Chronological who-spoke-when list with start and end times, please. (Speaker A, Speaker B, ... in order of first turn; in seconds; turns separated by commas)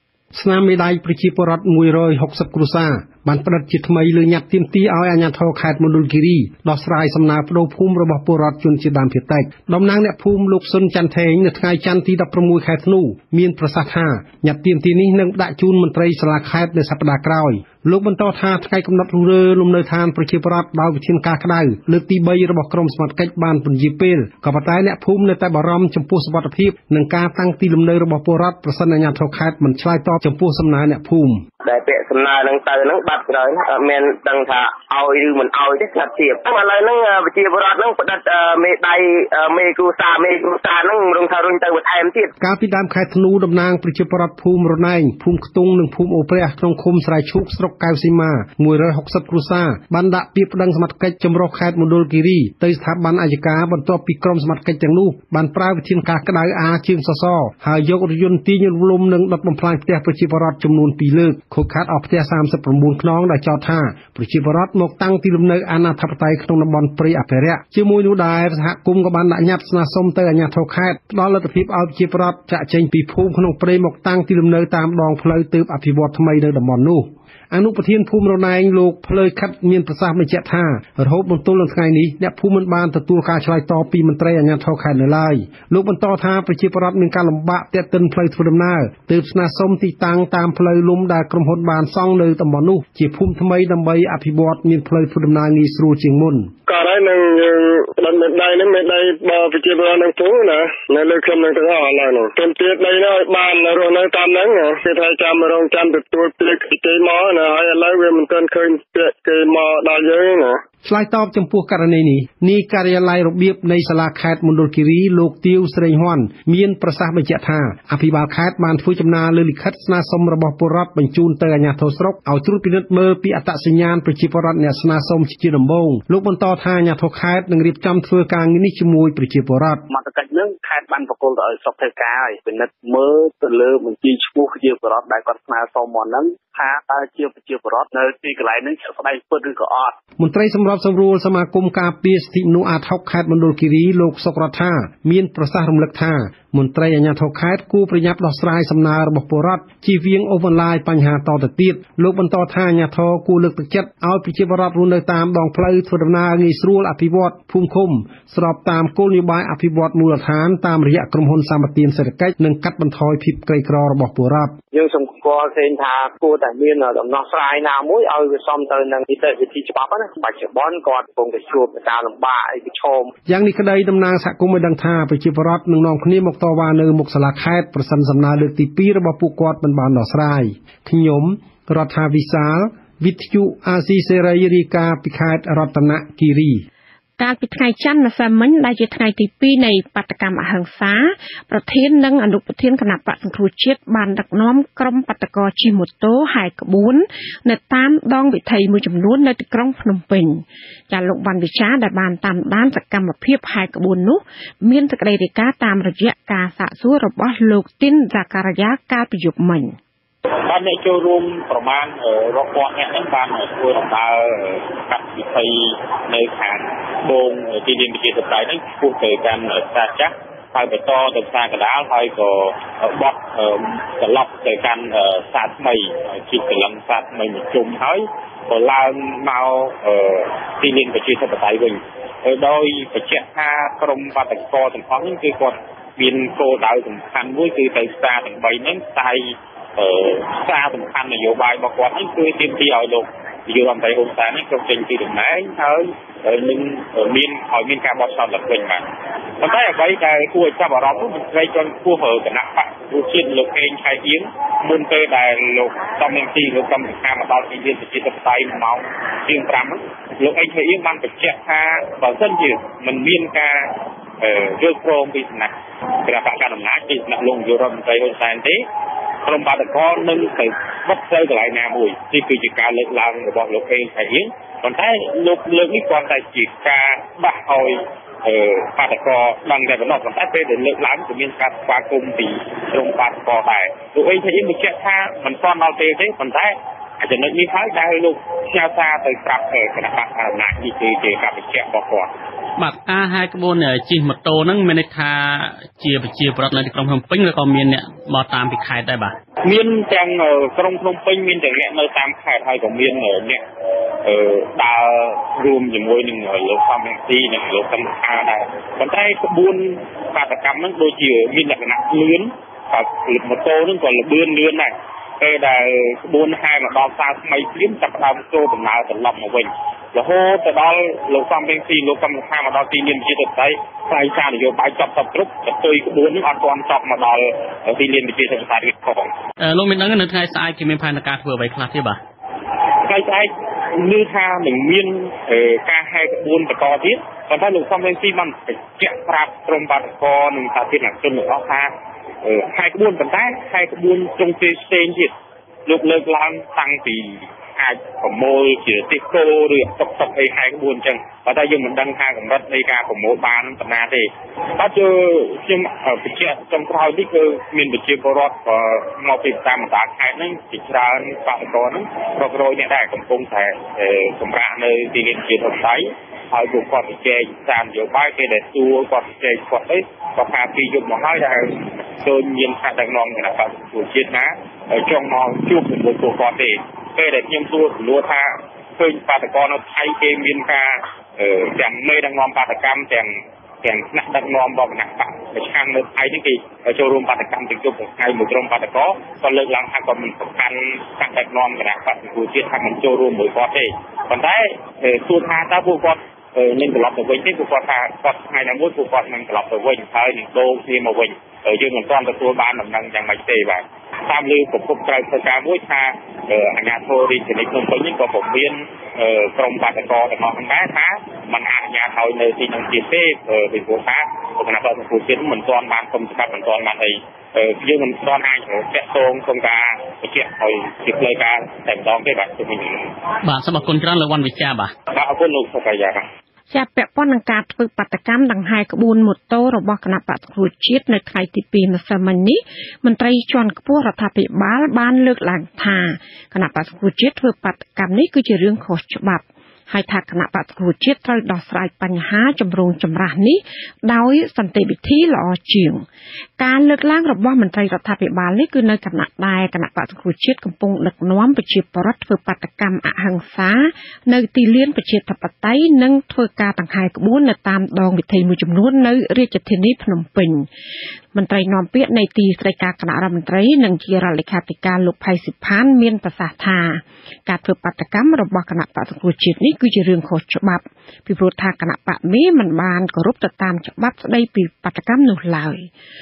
Speaker A: 0.3-31.4, Speaker B: 31.6-42.3, Speaker A: 42.4-96.5, Speaker C: 96.7-110.6, Speaker A: 110.8-129.8, Speaker D: 129.9-140.0, Speaker A: 140.2-164.6, Speaker D: 164.7-173.1, Speaker A: 173.3-186.6, Speaker E: 187.2-209.8, Speaker F: 210.5-248.8, Speaker F: 249.4-265.5, Speaker F: 266.0-268.6, Speaker F: 269.2-292.1, Speaker G: 292.6-299.1, Speaker F: 299.4-303.4, Speaker F: 304.0-329.1, Speaker G: 329.4-332.0, Speaker F: 332.8-341.7, Speaker F: 342.2-345.1, Speaker F: 345.6-422.9, Speaker G: 423.2-424.7, Speaker F: 424.9-426.1, Speaker E: 426.5-445.8, Speaker E: 446.4-460.5, Speaker E: 461.1-475.7